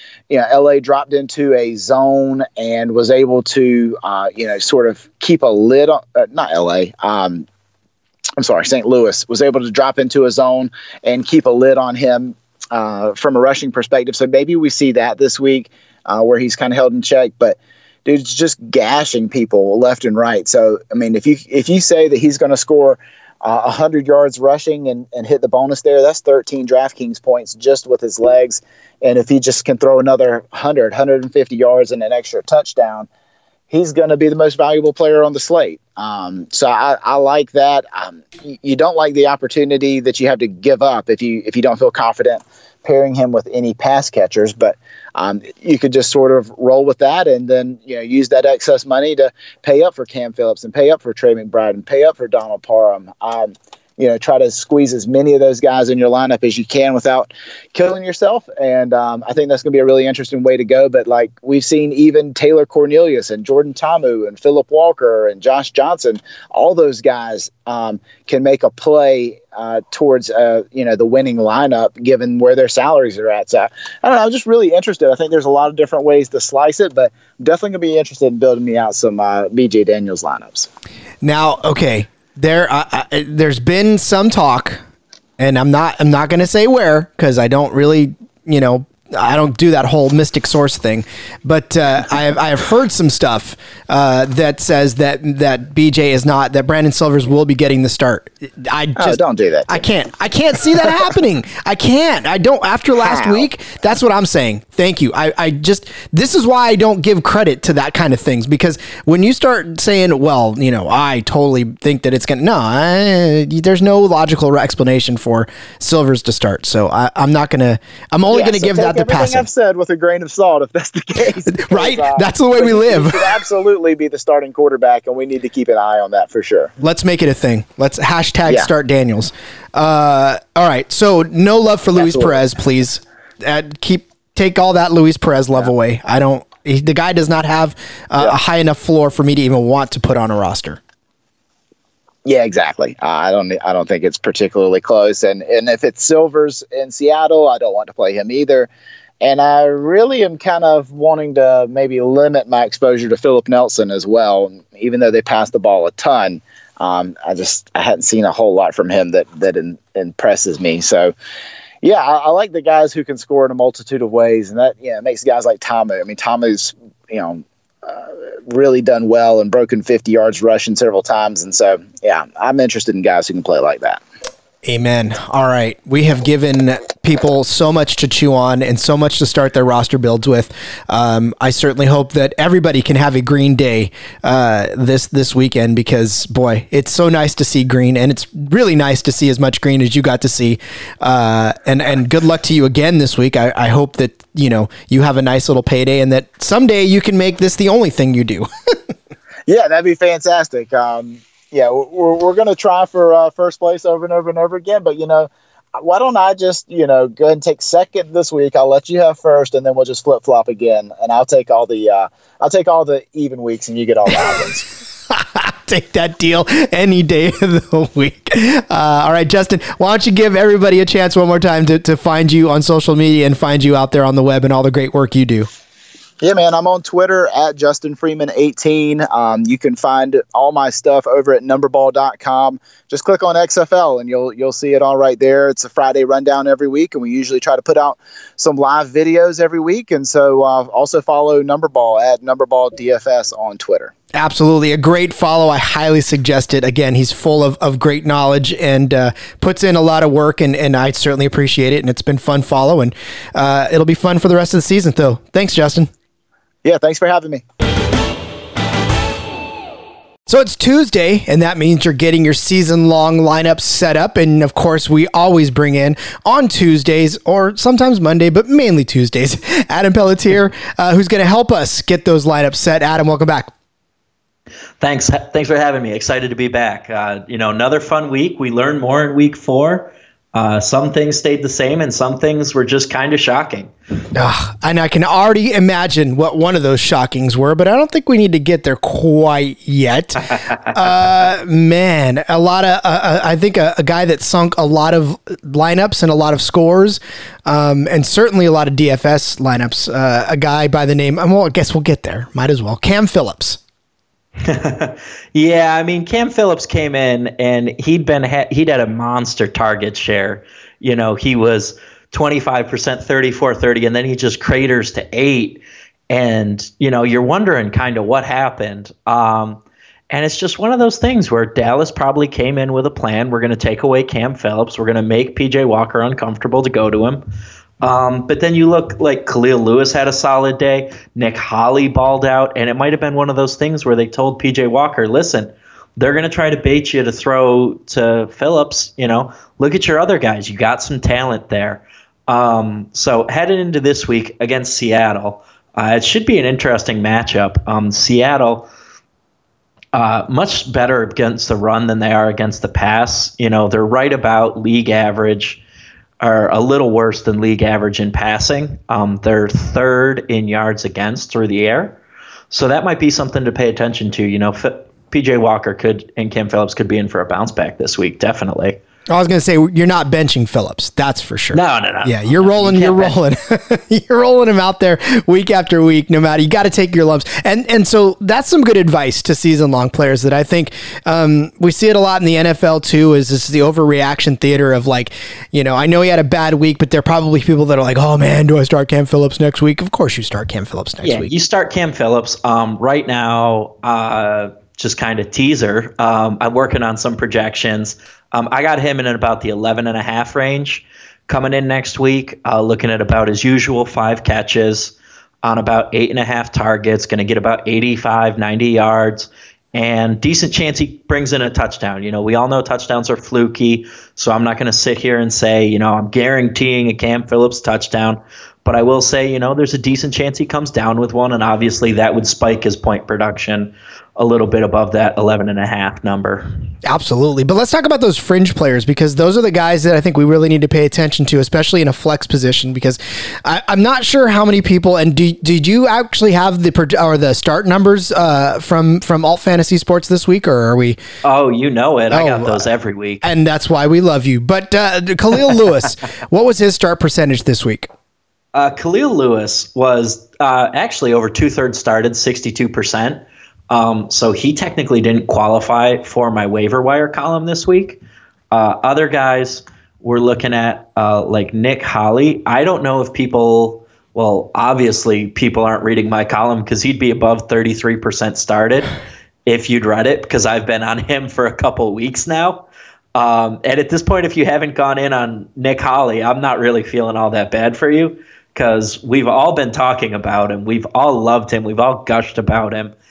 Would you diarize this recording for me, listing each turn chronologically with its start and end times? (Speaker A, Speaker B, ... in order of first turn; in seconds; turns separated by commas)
Speaker A: 0.3-7.5, Speaker A: 8.4-33.1, Speaker A: 33.7-80.7, Speaker B: 81.2-84.8, Speaker B: 85.4-119.5, Speaker A: 99.0-99.8, Speaker A: 103.0-103.5, Speaker A: 118.3-126.7, Speaker B: 121.5-123.3, Speaker B: 126.8-140.8, Speaker A: 132.0-132.4, Speaker A: 142.2-148.7, Speaker A: 149.2-161.1, Speaker A: 161.8-174.0, Speaker B: 174.6-198.9, Speaker A: 199.5-214.6, Speaker B: 215.1-225.5, Speaker A: 226.2-243.9, Speaker B: 244.1-255.9, Speaker A: 256.6-257.4, Speaker B: 260.3-273.5, Speaker C: 274.8-283.7, Speaker B: 284.1-303.6, Speaker C: 304.4-327.2, Speaker C: 327.8-348.7, Speaker C: 349.9-355.6, Speaker C: 356.2-362.0, Speaker C: 362.5-368.8, Speaker B: 369.1-391.3, Speaker C: 371.5-373.1, Speaker C: 391.0-426.5, Speaker B: 426.8-441.0, Speaker C: 441.2-443.2, Speaker B: 442.1-442.6, Speaker B: 443.2-447.9, Speaker C: 448.5-468.9, Speaker C: 469.4-482.9